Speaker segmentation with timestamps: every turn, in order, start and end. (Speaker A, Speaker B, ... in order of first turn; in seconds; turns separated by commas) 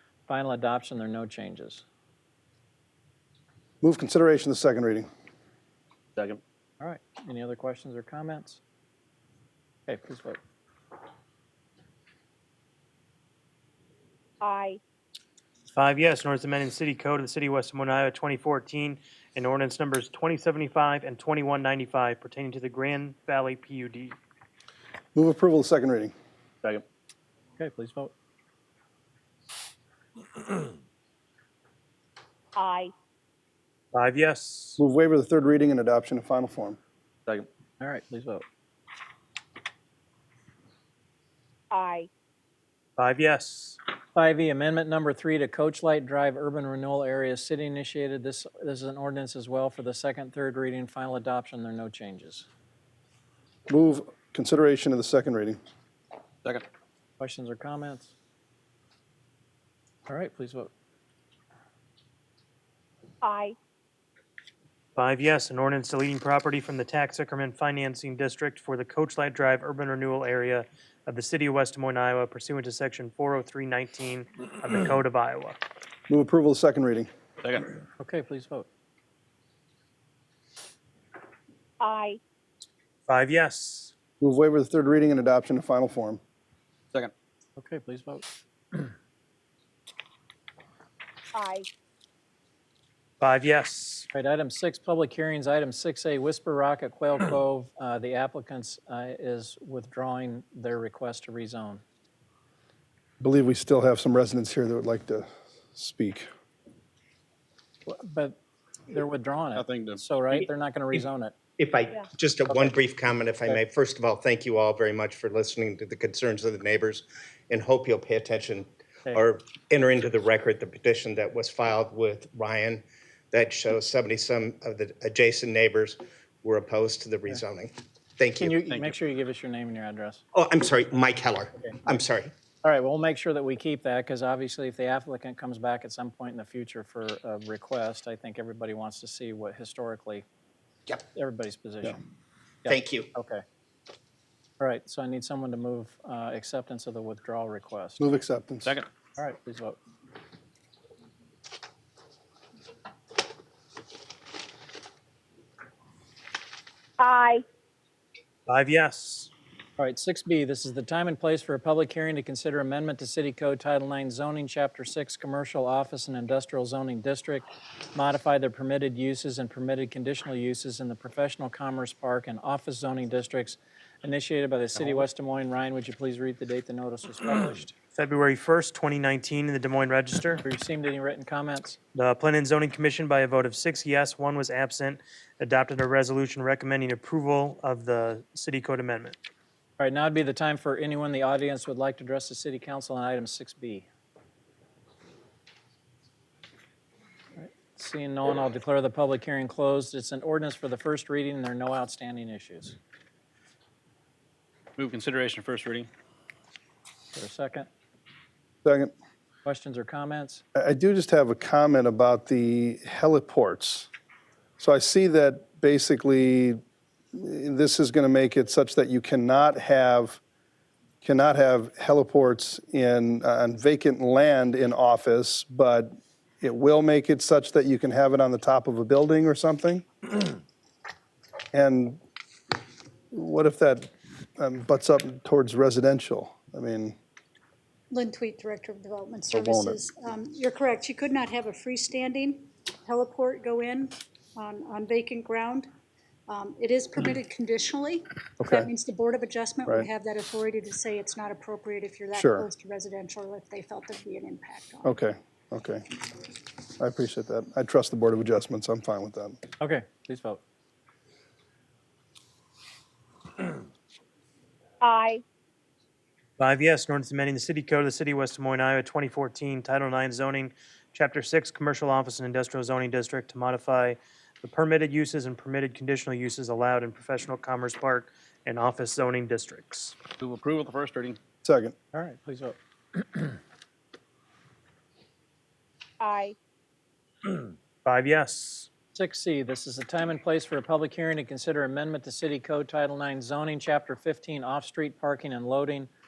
Speaker A: 0.3-1.8, Speaker B: 3.8-5.1, Speaker A: 6.8-8.6, Speaker A: 9.9-10.4, Speaker C: 14.4-14.8, Speaker D: 15.7-24.1, Speaker B: 25.1-26.1, Speaker A: 27.6-28.1, Speaker C: 32.5-32.9, Speaker D: 33.9-34.8, Speaker B: 34.8-36.8, Speaker A: 37.8-38.4, Speaker C: 41.7-42.1, Speaker D: 43.0-43.8, Speaker A: 44.1-52.5, Speaker B: 53.7-55.6, Speaker A: 57.2-58.1, Speaker A: 60.1-60.7, Speaker C: 63.2-63.5, Speaker D: 65.0-75.6, Speaker B: 76.1-77.1, Speaker A: 78.0-78.7, Speaker C: 81.8-82.2, Speaker D: 83.1-83.9, Speaker B: 84.2-86.2, Speaker A: 87.6-88.2, Speaker C: 91.3-91.7, Speaker D: 93.2-94.1, Speaker A: 94.1-101.8, Speaker B: 103.2-106.3, Speaker A: 107.9-108.4, Speaker A: 108.9-111.3, Speaker E: 109.5-110.0, Speaker F: 112.2-122.8, Speaker E: 115.1-115.6, Speaker E: 121.9-122.5, Speaker E: 123.3-123.7, Speaker F: 123.3-127.7, Speaker E: 126.5-126.8, Speaker E: 128.4-128.9, Speaker A: 128.4-130.2, Speaker E: 130.3-131.0, Speaker F: 130.5-131.5, Speaker A: 132.6-140.2, Speaker A: 141.1-142.0, Speaker A: 142.6-143.4, Speaker A: 144.6-148.1, Speaker B: 148.0-148.8, Speaker A: 149.2-149.8, Speaker C: 157.0-157.4, Speaker D: 158.5-159.3, Speaker A: 159.8-177.7, Speaker D: 177.9-180.4, Speaker A: 180.4-181.8, Speaker D: 181.9-189.2, Speaker A: 189.8-193.8, Speaker A: 197.4-202.8, Speaker E: 204.8-205.9, Speaker A: 207.1-207.7, Speaker B: 208.6-208.9, Speaker A: 209.4-210.4, Speaker B: 210.5-213.9, Speaker B: 214.6-216.6, Speaker B: 217.1-220.2, Speaker B: 221.0-229.8, Speaker B: 231.5-232.0, Speaker B: 233.1-236.9, Speaker G: 237.9-245.7, Speaker B: 239.3-239.7, Speaker G: 246.3-254.8, Speaker B: 248.4-248.7, Speaker B: 252.2-252.4, Speaker B: 254.8-256.0, Speaker B: 256.8-259.4, Speaker A: 259.6-260.4, Speaker C: 264.8-265.2, Speaker D: 266.4-280.0, Speaker E: 280.2-281.2, Speaker B: 281.4-281.7, Speaker A: 281.9-283.3, Speaker C: 286.0-286.4, Speaker D: 287.3-288.7, Speaker A: 288.9-295.9